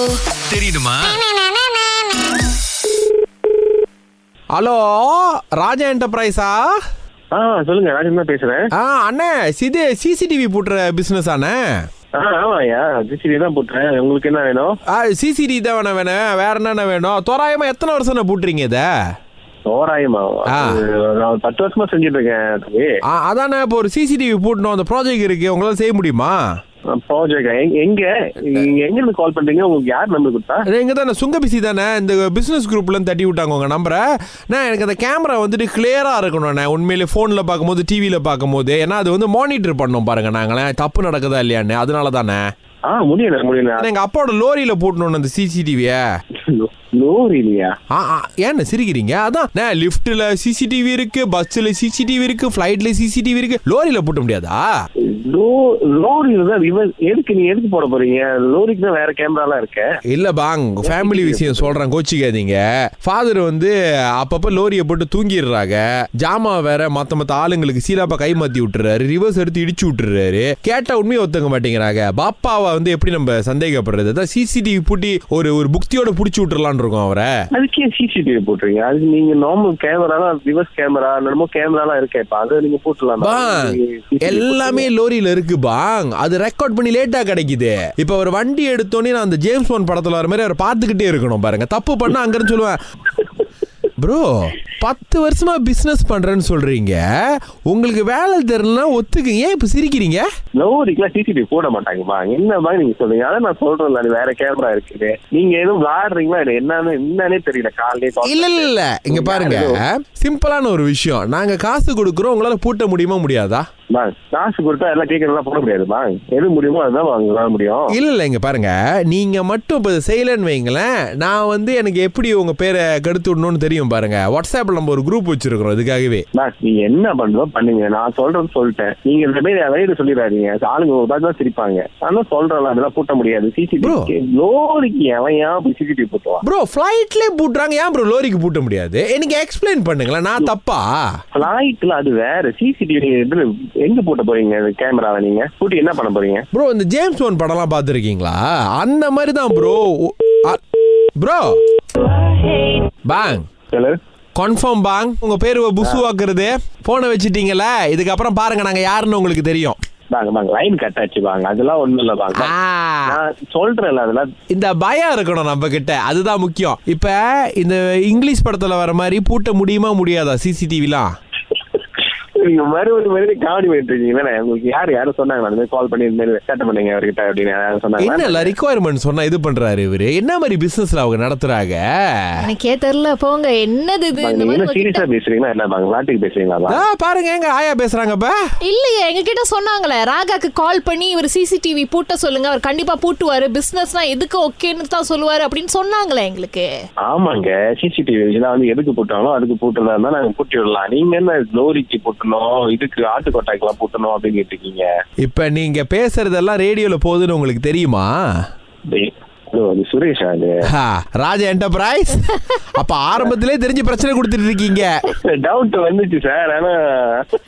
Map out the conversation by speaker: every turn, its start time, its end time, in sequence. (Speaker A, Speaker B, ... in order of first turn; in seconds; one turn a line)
Speaker A: 0.3-1.2
Speaker A: 4.5-6.7
Speaker B: 7.3-8.7
Speaker A: 8.7-11.6
Speaker B: 12.2-14.7
Speaker A: 14.9-18.9
Speaker B: 19.7-22.9
Speaker A: 20.5-20.8
Speaker A: 23.1-26.4
Speaker B: 26.9-30.6
Speaker A: 30.7-42.4
Speaker B: 42.9-43.9
Speaker A: 43.8-46.0
Speaker B: 46.4-47.7
Speaker A: 47.9-54.7
Speaker B: 55.0-59.9
Speaker A: 60.1-77.3
Speaker B: 60.8-61.8
Speaker B: 77.5-84.9
Speaker A: 83.2-92.8
Speaker A: 94.0-97.0
Speaker A: 97.7-100.2
Speaker B: 100.6-109.8
Speaker A: 108.2-113.7
Speaker B: 113.9-117.9
Speaker A: 117.9-126.2
Speaker B: 126.3-136.4
Speaker A: 133.8-134.1
Speaker A: 136.4-141.0
Speaker B: 141.3-146.5
Speaker A: 146.5-150.6
Speaker A: 151.2-151.6
Speaker A: 153.1-153.4
Speaker B: 153.7-154.0
Speaker A: 154.3-159.8
Speaker B: 160.1-162.5
Speaker A: 162.3-163.2
Speaker B: 163.1-164.3
Speaker A: 164.5-171.1
Speaker B: 172.2-178.5
Speaker A: 178.0-182.4
Speaker C: 182.4-185.0
Speaker B: 184.2-186.8
Speaker A: 186.7-188.3
Speaker C: 188.6-196.7
Speaker B: 197.1-204.9
Speaker A: 205.2-208.1
Speaker B: 208.9-210.6
Speaker A: 210.7-214.9
Speaker B: 215.1-217.4